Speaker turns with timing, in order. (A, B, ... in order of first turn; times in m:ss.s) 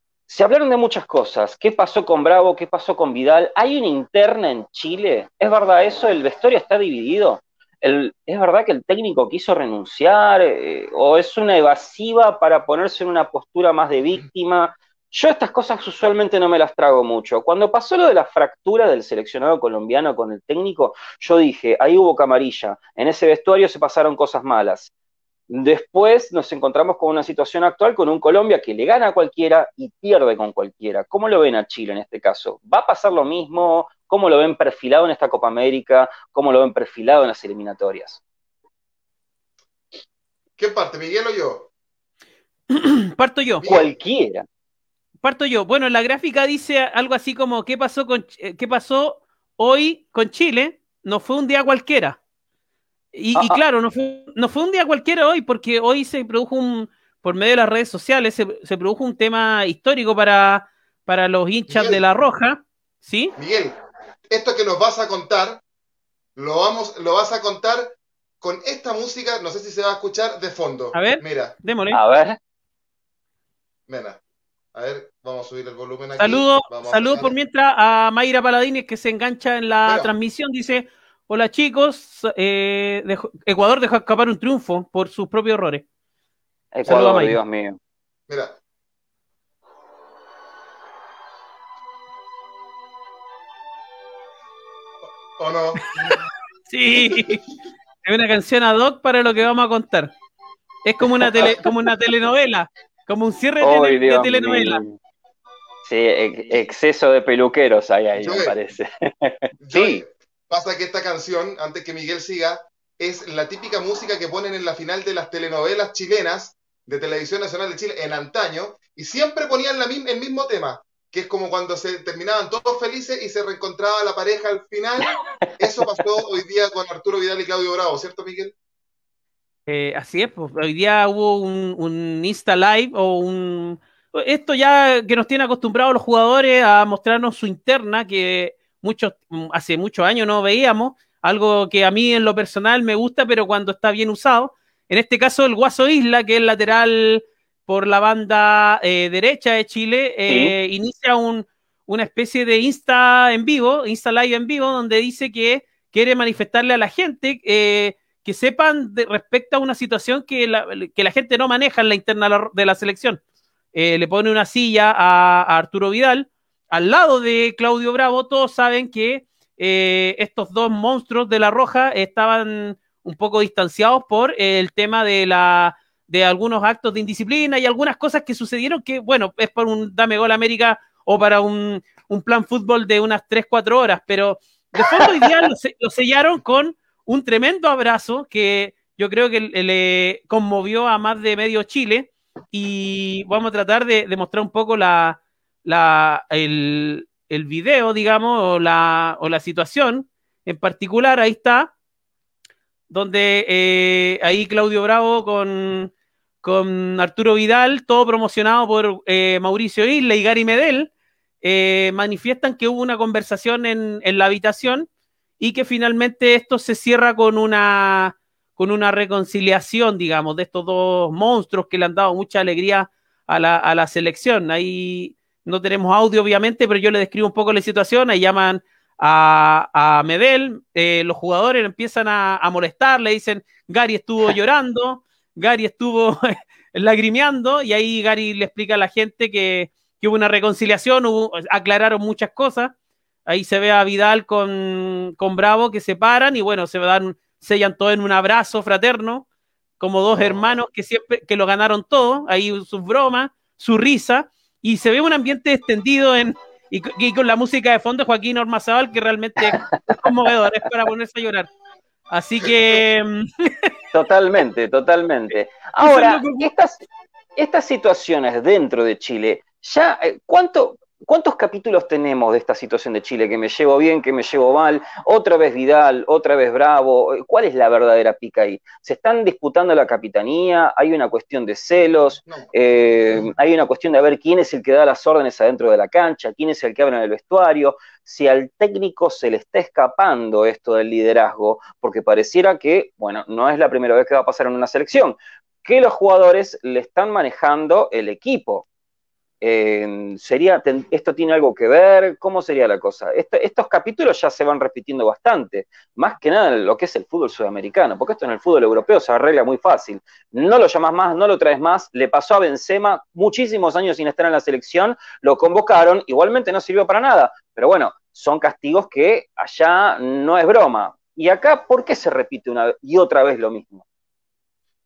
0:00.3-0:24.9 A
0:25.5-0:38.2 A
0:40.6-0:41.7 B
0:42.7-0:43.6 C
0:43.6-0:43.9 B
0:43.6-0:44.4 A
0:45.2-0:52.2 C
0:53.1-1:03.3 C
0:53.4-0:53.6 A
1:01.7-1:02.0 B
1:03.4-1:03.8 B
1:04.3-1:05.6 B
1:06.4-1:11.6 B
1:10.9-1:12.0 C
1:11.9-1:12.4 A
1:13.9-1:14.2 B
1:14.7-1:17.4 B
1:16.2-1:25.8 C
1:19.8-1:20.1 B
1:26.7-1:27.8 A
1:26.8-1:27.4 C
1:28.3-1:28.6 B
1:35.4-1:36.3 B
1:36.7-1:37.4 C
1:38.0-1:40.1 C
1:40.8-1:44.8 C
1:43.6-1:45.0 A
1:45.8-1:50.0 A
1:48.2-1:48.6 B
1:49.6-2:08.6 B
2:09.7-2:43.2 C
2:30.3-2:30.5 A
2:43.7-3:21.7 C
3:04.8-3:05.3 A
3:22.9-3:30.9 C
3:31.4-4:02.7 C
4:03.3-4:09.3 C
4:09.8-4:21.5 C
4:19.6-4:20.0 A
4:22.1-4:23.7 C
4:23.9-4:26.8 A
4:25.8-4:26.5 C
4:27.4-4:58.7 A
4:59.4-5:23.8 A